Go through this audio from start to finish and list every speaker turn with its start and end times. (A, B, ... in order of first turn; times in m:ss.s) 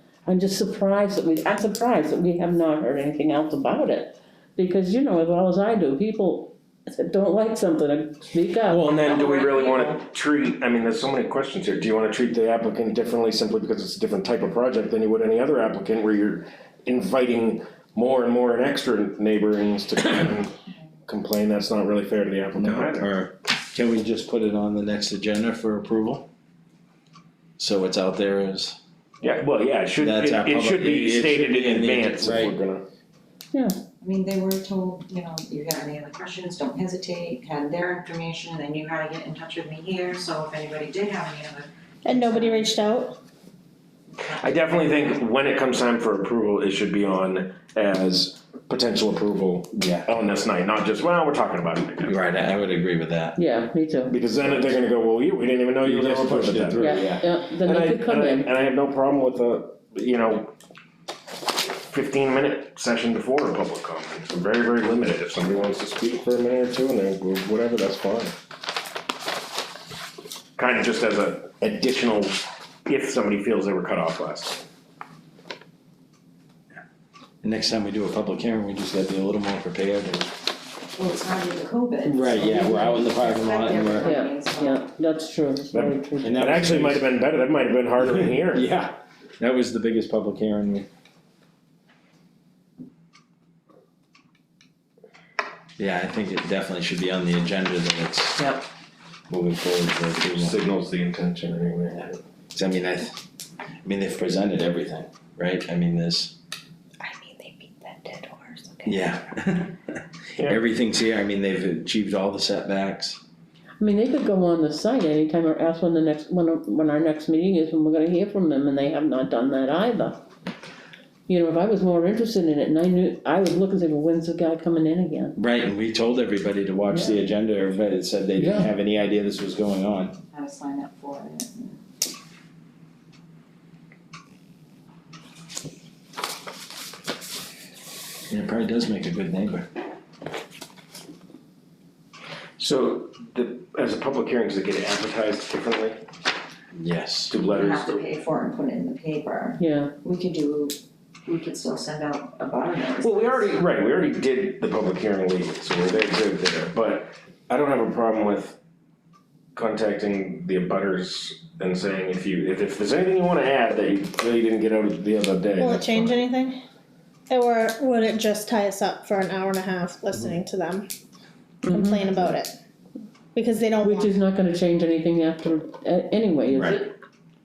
0:00.2-0:08.8 A
0:08.7-0:23.1 B
0:08.9-0:10.0 C
0:22.5-0:26.3 D
0:27.6-0:28.8 D
0:29.2-0:32.8 B
0:30.0-0:32.5 D
0:34.0-0:42.7 C
0:42.0-0:43.2 E
0:44.3-0:52.2 B
0:49.7-0:50.1 D
0:52.0-0:53.4 D
0:53.4-0:54.1 A
0:54.1-1:00.5 B
0:54.4-0:54.8 D
0:55.8-0:57.2 D
0:56.8-0:58.5 A
1:01.8-1:08.3 B
1:10.6-1:14.6 B
1:17.4-1:20.3 D
1:21.0-1:24.9 C
1:22.0-1:24.1 D
1:24.0-1:26.5 A
1:25.7-1:28.6 B
1:26.2-1:27.1 D
1:28.0-1:30.9 D
1:35.8-1:38.5 D
1:39.3-1:40.5 D
1:40.3-1:42.2 B
1:42.5-1:43.2 D
1:43.8-1:46.3 D
1:47.0-1:49.0 C
1:48.8-1:53.2 D
1:50.3-1:50.6 B
1:53.8-2:00.2 A
2:01.3-2:05.4 A
2:05.4-2:10.2 D
2:06.9-2:07.2 A
2:08.4-2:08.7 A
2:10.3-2:11.8 C
2:18.3-2:19.7 D
2:22.6-2:26.0 B
2:26.7-2:27.3 D
2:27.3-2:28.0 B
2:27.4-2:33.6 C
2:29.6-2:29.9 A
2:33.0-2:38.6 B
2:39.5-2:46.2 B
2:45.6-2:46.6 E
2:47.3-2:50.9 E
2:51.6-2:52.1 A
2:51.6-2:52.5 E
2:53.3-2:54.1 E
2:53.8-2:56.9 A
2:56.5-2:56.8 D